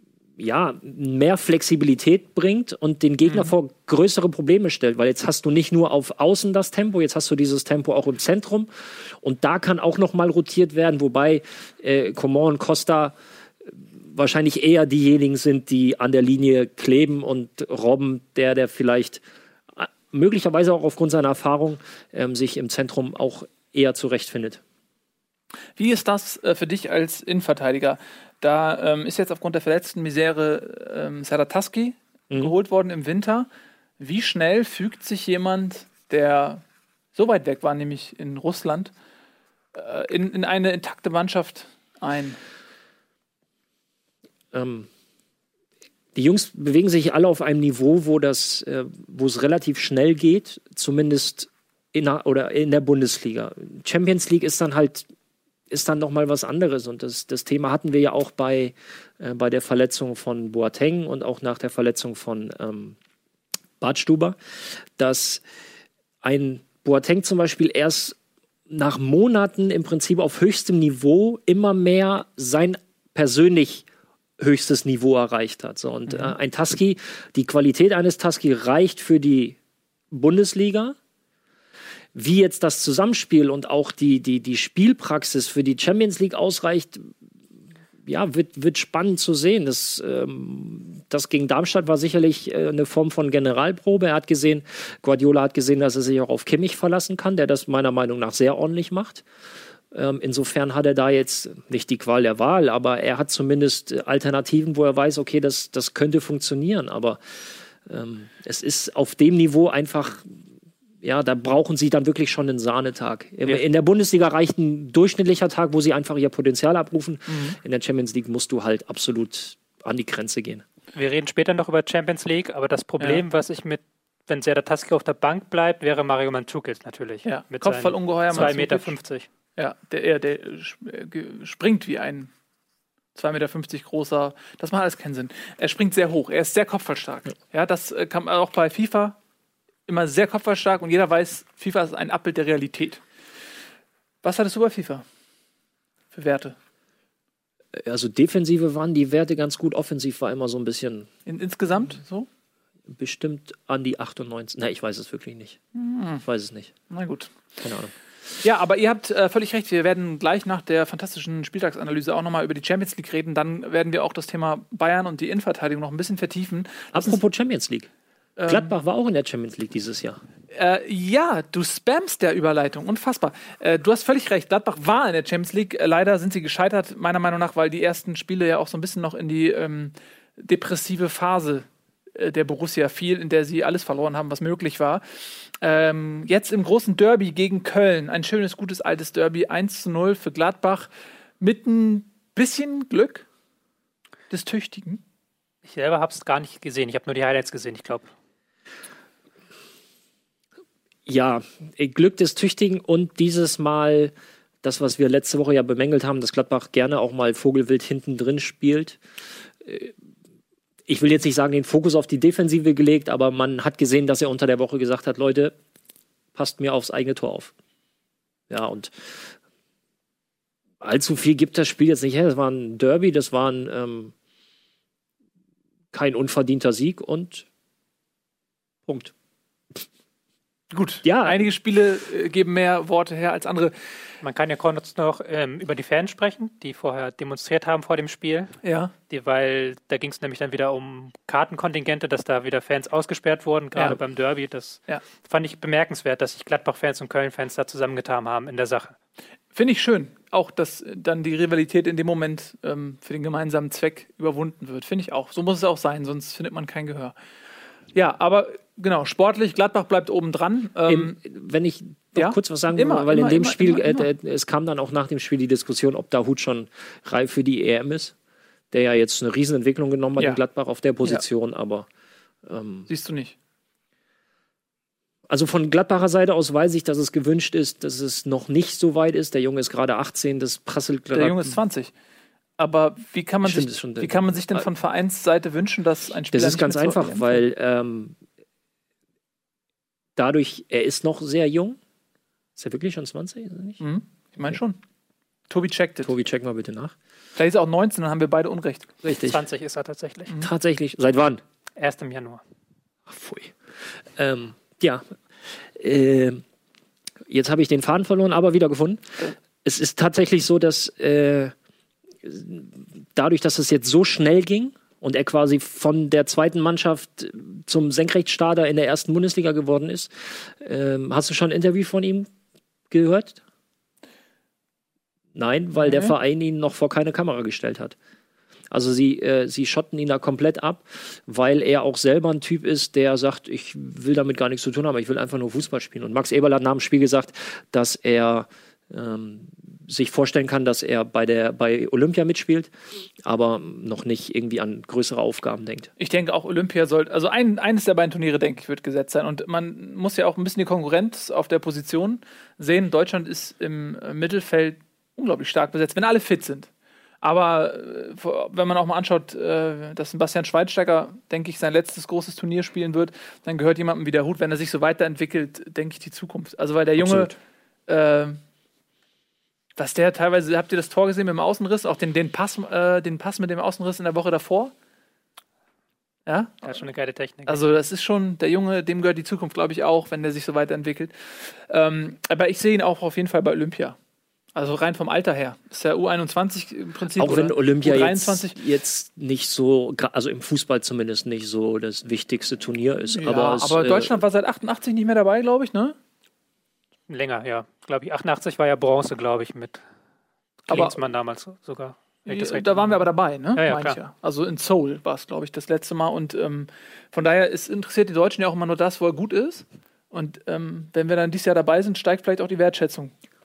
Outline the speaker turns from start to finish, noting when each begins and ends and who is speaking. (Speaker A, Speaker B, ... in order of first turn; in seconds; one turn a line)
Speaker A: 0.4-19.2
Speaker B: 3.2-3.5
Speaker A: 19.8-24.6
Speaker B: 25.8-33.5
Speaker B: 34.0-36.6
Speaker B: 37.1-38.9
Speaker B: 39.7-42.4
Speaker A: 44.5-44.9
Speaker A: 46.1-55.1
Speaker A: 55.7-63.0
Speaker A: 63.8-64.4
Speaker A: 65.0-65.4
Speaker A: 66.2-68.2
Speaker A: 68.7-73.8
Speaker A: 74.4-79.6
Speaker B: 76.1-76.3
Speaker A: 80.1-81.0
Speaker A: 82.1-87.1
Speaker A: 88.0-99.2
Speaker A: 99.9-110.4
Speaker A: 111.0-120.6
Speaker B: 117.3-117.6
Speaker C: 120.9-129.3
Speaker B: 127.2-128.9
Speaker B: 129.6-132.3
Speaker B: 133.1-139.2
Speaker B: 139.9-143.0
Speaker B: 144.2-145.0
Speaker B: 146.1-146.5
Speaker A: 147.7-151.1
Speaker B: 151.2-152.3
Speaker A: 152.9-155.6
Speaker B: 155.7-156.2
Speaker A: 156.2-156.7
Speaker B: 156.9-157.4
Speaker A: 157.6-157.9
Speaker B: 158.4-167.2
Speaker A: 166.9-167.9
Speaker B: 168.4-168.7
Speaker A: 168.5-170.2
Speaker B: 170.5-185.0
Speaker B: 185.6-193.2
Speaker B: 194.3-195.0
Speaker C: 195.7-198.1
Speaker A: 201.1-209.0
Speaker A: 209.6-209.9
Speaker A: 210.9-215.5
Speaker A: 216.3-217.5
Speaker A: 218.5-219.3
Speaker A: 220.8-224.1
Speaker A: 225.9-227.4
Speaker A: 228.8-229.1
Speaker B: 230.7-233.7
Speaker A: 231.0-231.4
Speaker C: 234.2-238.5
Speaker B: 238.6-238.9
Speaker C: 239.1-248.9
Speaker B: 249.5-257.1
Speaker B: 257.9-261.2
Speaker A: 260.9-268.1
Speaker B: 262.1-264.1
Speaker A: 268.7-271.9
Speaker A: 272.4-272.9
Speaker B: 272.9-273.3
Speaker A: 275.3-281.6
Speaker B: 281.1-281.9
Speaker B: 282.6-287.4
Speaker A: 283.4-284.7
Speaker A: 286.3-288.1
Speaker A: 290.1-291.8
Speaker A: 292.6-293.8
Speaker B: 293.8-294.8
Speaker B: 295.5-296.1
Speaker A: 296.0-296.9
Speaker B: 297.4-298.9
Speaker A: 299.0-299.4
Speaker C: 299.2-300.4
Speaker A: 300.4-301.4
Speaker C: 301.8-302.4
Speaker A: 303.1-303.6
Speaker A: 304.1-306.4
Speaker A: 307.3-311.5
Speaker A: 312.2-322.3
Speaker A: 322.9-323.4
Speaker A: 325.3-327.9
Speaker B: 325.8-326.1
Speaker A: 328.7-342.7
Speaker A: 343.2-345.9
Speaker B: 346.0-356.7
Speaker B: 357.2-367.4
Speaker A: 367.0-367.3
Speaker B: 367.9-368.4
Speaker B: 369.8-374.7
Speaker B: 376.2-376.8
Speaker C: 376.6-377.6
Speaker B: 377.5-381.1
Speaker B: 381.7-383.9
Speaker B: 384.5-388.6
Speaker A: 387.1-394.2
Speaker B: 393.1-395.9
Speaker C: 397.1-399.8
Speaker B: 400.7-401.0
Speaker C: 400.7-404.0
Speaker B: 402.3-413.1